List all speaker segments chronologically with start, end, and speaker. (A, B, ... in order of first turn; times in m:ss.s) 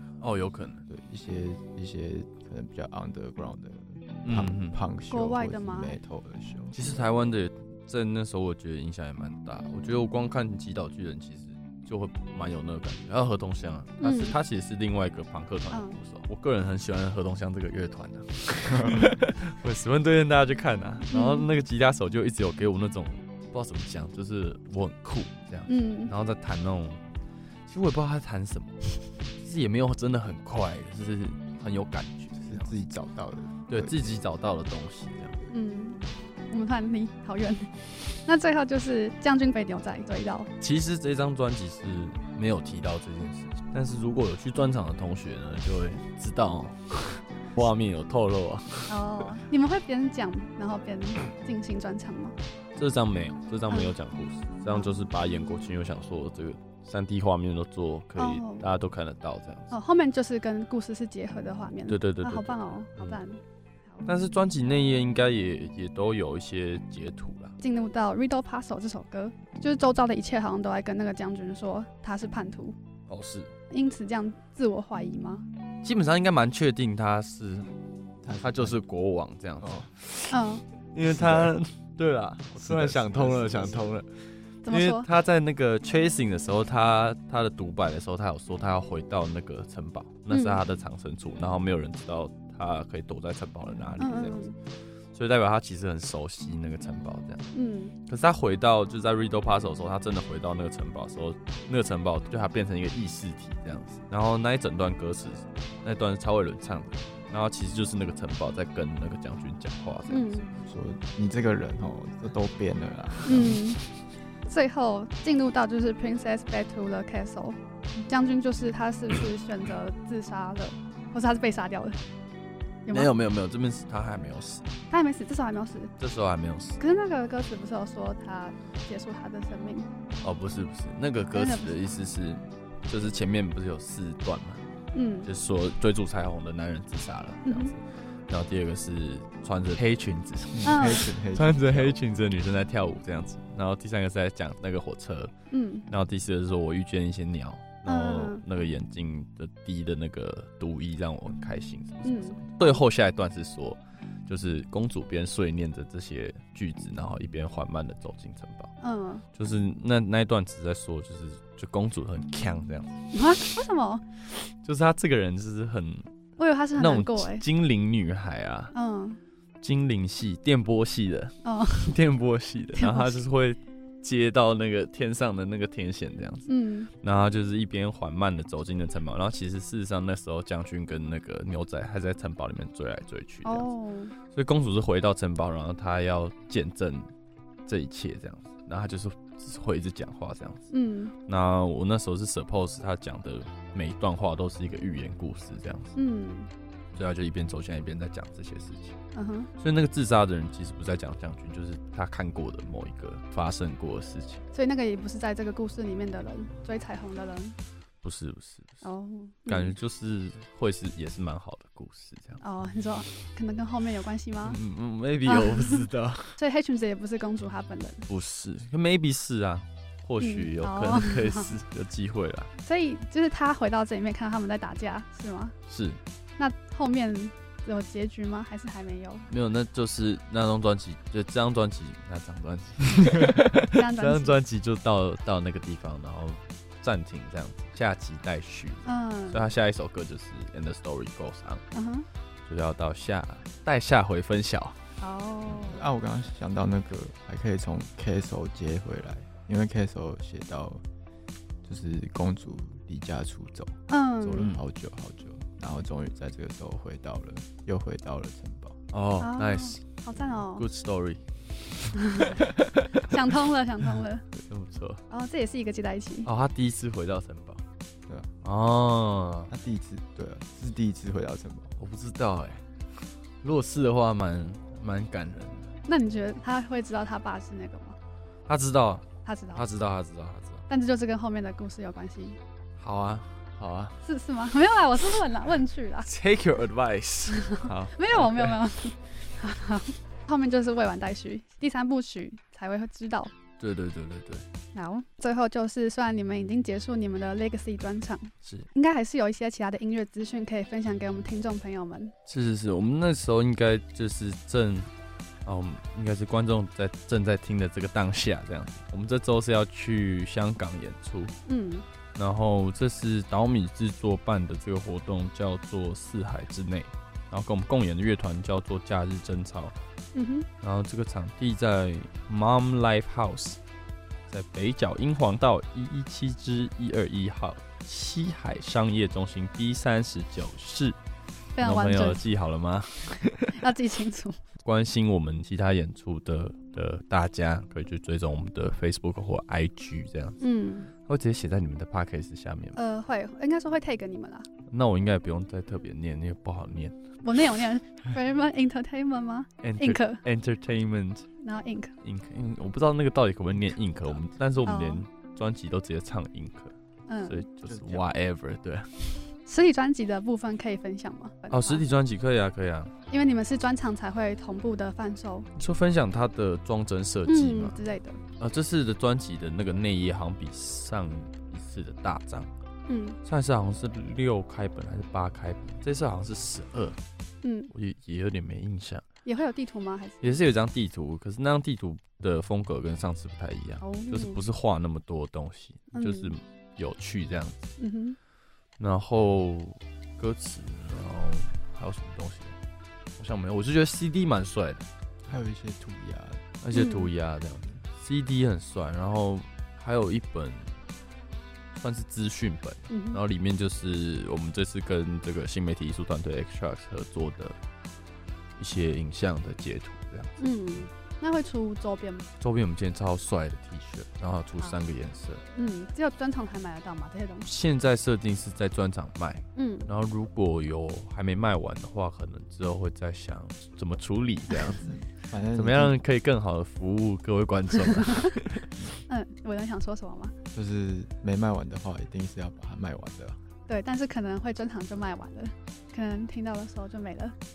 0:00.2-0:00.8 A
0:00.9-0:07.0 B
0:04.2-0:04.8 A
0:05.1-0:06.0 C
0:06.7-0:27.0 A
0:14.0-0:14.4 C
0:18.7-0:19.1 B
0:21.1-0:21.5 C
0:25.7-0:26.1 C
0:27.6-0:32.7 A
0:32.4-0:34.0 B
0:33.7-0:35.4 A
0:35.5-0:36.0 C
0:36.5-0:40.5 C
0:40.6-0:49.3 A
0:48.9-0:52.3 C
0:52.8-0:59.7 A
0:58.2-0:58.6 C
0:59.7-1:03.4 C
1:01.9-1:03.2 A
1:04.0-1:07.5 A
1:07.6-1:12.8 C
1:13.1-1:13.5 A
1:13.7-1:15.4 C
1:15.8-1:17.7 A
1:18.2-1:18.8 B
1:18.4-1:20.3 A
1:19.6-1:19.9 B
1:20.3-1:20.6 C
1:20.9-1:34.4 A
1:21.0-1:21.5 B
1:22.5-1:23.9 B
1:24.6-1:25.1 C
1:30.3-1:30.6 C
1:34.0-1:34.5 C
1:35.1-1:37.4 A
1:37.5-1:37.9 C
1:38.0-1:50.4 A
1:50.1-1:50.5 C
1:50.6-1:53.6 B
1:53.2-1:53.8 C
1:54.4-2:02.0 C
2:02.8-2:03.1 C
2:02.9-2:04.7 A
2:04.9-2:05.9 C
2:06.0-2:06.8 A
2:06.8-2:09.9 C
2:10.2-2:14.7 A
2:11.3-2:11.7 C
2:14.9-2:15.3 C
2:15.2-2:25.3 A
2:17.4-2:17.8 C
2:20.5-2:22.0 B
2:20.7-2:21.0 C
2:25.5-2:25.9 C
2:25.9-2:38.7 A
2:27.8-2:28.4 C
2:32.0-2:32.8 C
2:38.8-2:39.2 C
2:39.3-2:43.0 A
2:43.1-2:44.0 C
2:44.5-2:46.1 A
2:46.4-2:47.4 C
2:46.8-2:48.7 A
2:48.7-2:49.2 C
2:49.6-3:03.7 A
2:51.4-2:51.9 C
2:52.7-2:53.2 C
2:56.5-2:56.9 C
3:03.4-3:04.1 C
3:04.3-3:07.1 A
3:07.6-3:10.7 A
3:10.7-3:11.1 C
3:11.2-3:16.0 A
3:15.9-3:16.5 C
3:16.9-3:19.0 A
3:19.1-3:19.5 C
3:19.6-3:24.4 A
3:24.5-3:27.6 C
3:28.0-3:28.8 A
3:28.8-3:29.7 C
3:29.5-3:32.4 A
3:32.4-3:34.6 C
3:34.4-3:36.4 A
3:35.2-3:35.9 C
3:36.4-3:38.0 C
3:38.1-3:42.5 A
3:40.2-3:41.5 C
3:42.6-3:45.5 C
3:45.7-3:46.0 A
3:46.4-3:49.2 C
3:49.3-4:01.6 A
3:53.7-3:54.4 C
3:58.8-3:59.5 C
4:01.7-4:02.1 C
4:02.4-4:04.8 A
4:05.0-4:05.8 C
4:05.6-4:10.8 B
4:11.6-4:18.8 B
4:13.9-4:14.5 C
4:18.9-4:19.8 A
4:19.2-4:20.7 C
4:20.3-4:22.6 A
4:22.0-4:24.2 C
4:24.4-4:25.0 A
4:25.1-4:26.3 C
4:26.2-4:27.6 A
4:28.4-4:29.5 A
4:29.5-4:31.7 B
4:31.8-4:32.7 A
4:33.4-4:35.7 A
4:35.9-4:38.0 C
4:38.5-4:40.6 A
4:39.2-4:39.6 C
4:40.7-4:42.4 C
4:42.8-4:44.0 A
4:44.0-4:46.1 C
4:46.0-4:48.6 A
4:47.3-4:53.3 C
4:53.6-4:54.4 A
4:54.7-5:02.1 C
4:58.4-4:58.7 A
5:02.2-5:04.9 A
5:05.4-5:11.4 A
5:11.5-5:11.8 C
5:12.2-5:19.7 A
5:20.1-5:20.5 C
5:20.6-5:23.6 A
5:24.3-5:31.0 A
5:31.6-5:32.3 C
5:31.6-5:33.6 A
5:33.5-5:34.4 C
5:34.6-5:40.4 A
5:40.4-5:40.9 C
5:40.9-5:42.8 A
5:42.7-5:44.5 C
5:44.7-5:47.0 A
5:47.2-5:50.2 C
5:49.6-5:51.3 A
5:51.4-5:51.9 C
5:52.0-5:56.7 A
5:54.6-5:55.0 C
5:57.1-5:57.4 C
5:57.2-5:59.3 A
5:57.6-5:58.0 B
5:59.5-6:01.8 C
6:01.5-6:02.9 A
6:03.1-6:05.5 C
6:05.5-6:07.8 A
6:07.3-6:08.2 C
6:08.4-6:12.5 A
6:12.9-6:13.2 C
6:13.2-6:17.0 A
6:17.4-6:17.7 C
6:17.7-6:19.0 A
6:19.2-6:20.4 C
6:20.2-6:27.7 A
6:23.8-6:24.4 C
6:25.9-6:26.3 C
6:27.8-6:28.2 C
6:28.8-6:32.6 A
6:33.2-6:34.8 A
6:35.2-6:36.4 B
6:36.6-6:40.7 A
6:36.7-6:37.1 C
6:41.7-6:47.6 A
6:42.9-6:43.2 C
6:48.6-6:50.4 A
6:50.4-6:52.3 C
6:52.4-6:55.4 A
6:55.5-6:57.5 C
6:57.4-7:05.0 A
6:59.6-6:59.9 C
7:04.9-7:06.0 B
7:05.5-7:08.7 A
7:09.1-7:10.3 C
7:10.5-7:13.4 B
7:13.7-7:17.3 C